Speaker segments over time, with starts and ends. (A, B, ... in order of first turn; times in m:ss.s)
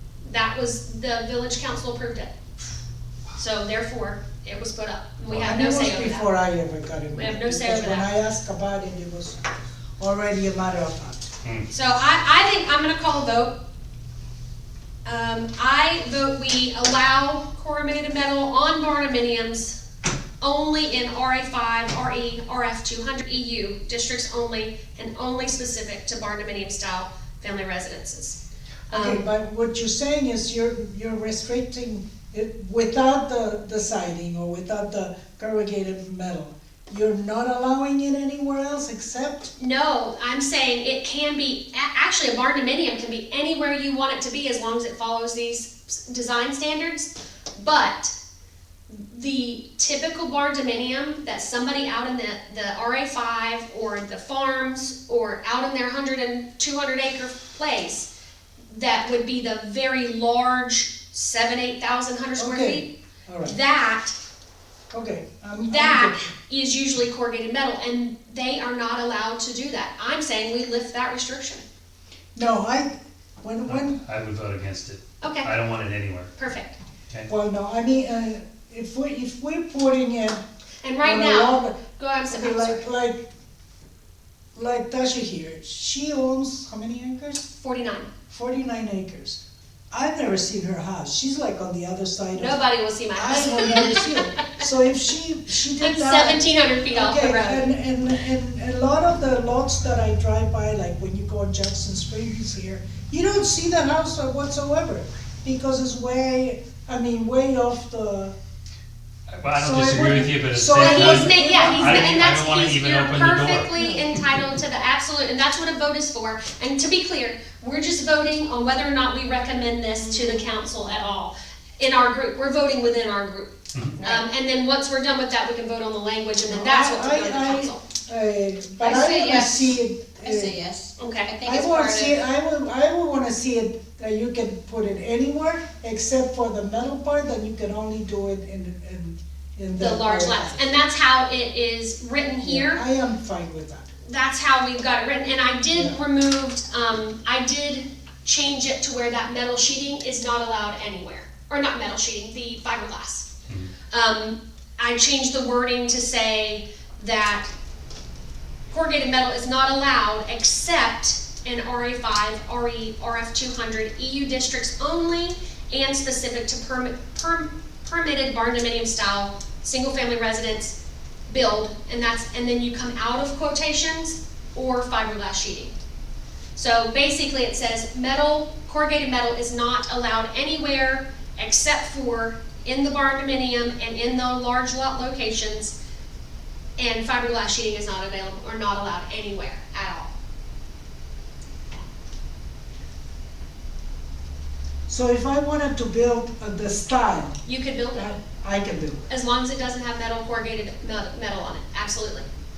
0:00.2-0:02.3 A
0:03.4-0:06.3 A
0:05.4-0:09.4 B
0:07.1-0:08.1 A
0:10.0-0:11.2 B
0:11.7-0:13.6 A
0:15.0-0:19.8 A
0:20.4-0:29.2 A
0:28.9-0:39.5 B
0:39.6-0:48.1 A
0:48.9-0:58.1 A
0:58.7-1:02.9 A
1:02.4-1:03.6 B
1:03.4-1:04.1 A
1:04.9-1:06.2 B
1:05.7-1:11.6 A
1:12.3-1:14.0 B
1:13.7-1:16.3 C
1:15.2-1:15.5 A
1:16.4-1:16.8 A
1:17.3-1:20.4 B
1:20.8-1:22.8 A
1:21.0-1:23.2 B
1:24.5-1:27.4 B
1:27.4-1:28.1 A
1:28.3-1:29.4 B
1:29.9-1:32.6 B
1:32.3-1:34.5 A
1:33.1-1:48.3 B
1:35.8-1:37.7 A
1:49.4-1:53.7 C
1:49.6-1:52.2 B
1:50.7-2:07.8 A
1:53.7-1:54.0 B
2:03.7-2:04.0 C
2:06.4-2:10.6 B
2:08.8-2:12.1 D
2:11.0-2:11.3 A
2:11.4-2:20.6 B
2:19.7-2:22.8 A
2:22.4-2:23.9 B
2:24.0-2:33.3 A
2:25.7-2:26.0 B
2:33.9-2:37.5 A
2:38.7-2:50.8 A
2:51.3-2:55.7 A
2:56.5-3:05.8 A
3:06.8-3:10.1 A
3:14.9-3:17.4 B
3:17.4-3:18.1 A
3:17.9-3:19.1 B
3:19.1-3:22.2 A